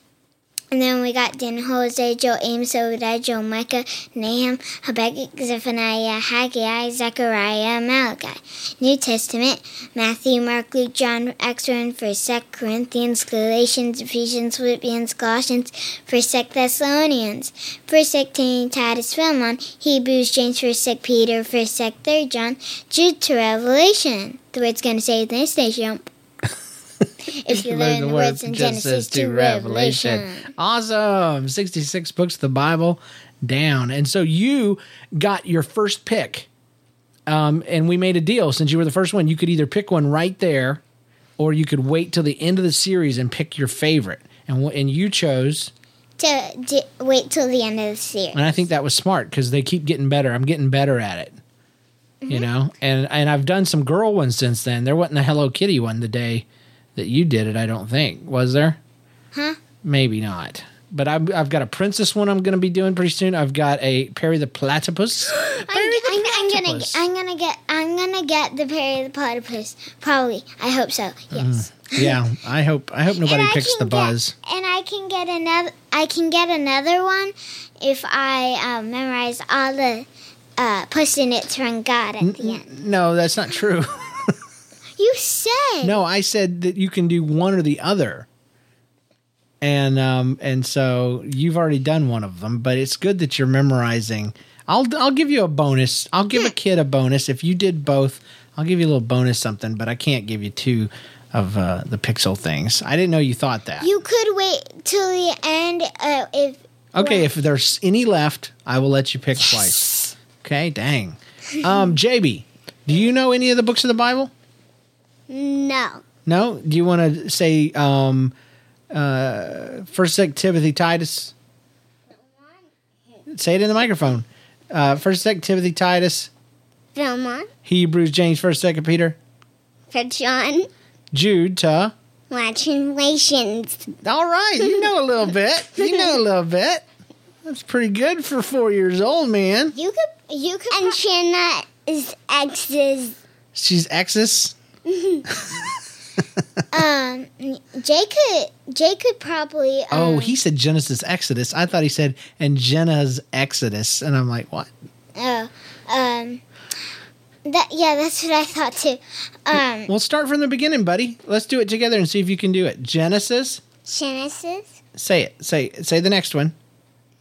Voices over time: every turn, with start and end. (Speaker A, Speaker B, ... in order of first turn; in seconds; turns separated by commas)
Speaker A: 0.7-26.1, Speaker A: 27.3-30.5, Speaker B: 27.5-36.5, Speaker B: 37.3-40.8, Speaker B: 41.4-45.7, Speaker A: 46.2-48.5, Speaker B: 48.3-51.4, Speaker A: 52.2-52.5, Speaker B: 52.3-56.5, Speaker B: 57.0-58.8, Speaker A: 59.3-59.6, Speaker B: 59.8-67.0, Speaker A: 65.4-72.2, Speaker B: 71.3-74.3, Speaker A: 73.1-80.1, Speaker A: 80.6-82.7, Speaker B: 82.2-84.3, Speaker A: 85.0-86.0, Speaker B: 85.8-88.3, Speaker B: 89.6-103.9, Speaker A: 103.8-107.3, Speaker B: 107.0-114.3, Speaker C: 115.3-116.0, Speaker B: 116.3-118.3, Speaker B: 118.9-121.3, Speaker B: 123.3-126.3, Speaker C: 127.0-127.5, Speaker B: 127.7-129.2, Speaker C: 129.9-130.7, Speaker B: 131.1-131.9, Speaker C: 132.3-133.9, Speaker B: 134.0-136.8, Speaker B: 137.4-139.8, Speaker A: 139.7-141.0, Speaker C: 140.7-143.2, Speaker B: 143.5-144.6, Speaker C: 144.9-145.2, Speaker A: 146.7-150.4, Speaker B: 149.9-154.7, Speaker A: 155.2-156.4, Speaker A: 157.5-159.9, Speaker B: 159.9-163.6, Speaker C: 163.8-164.8, Speaker B: 165.0-166.5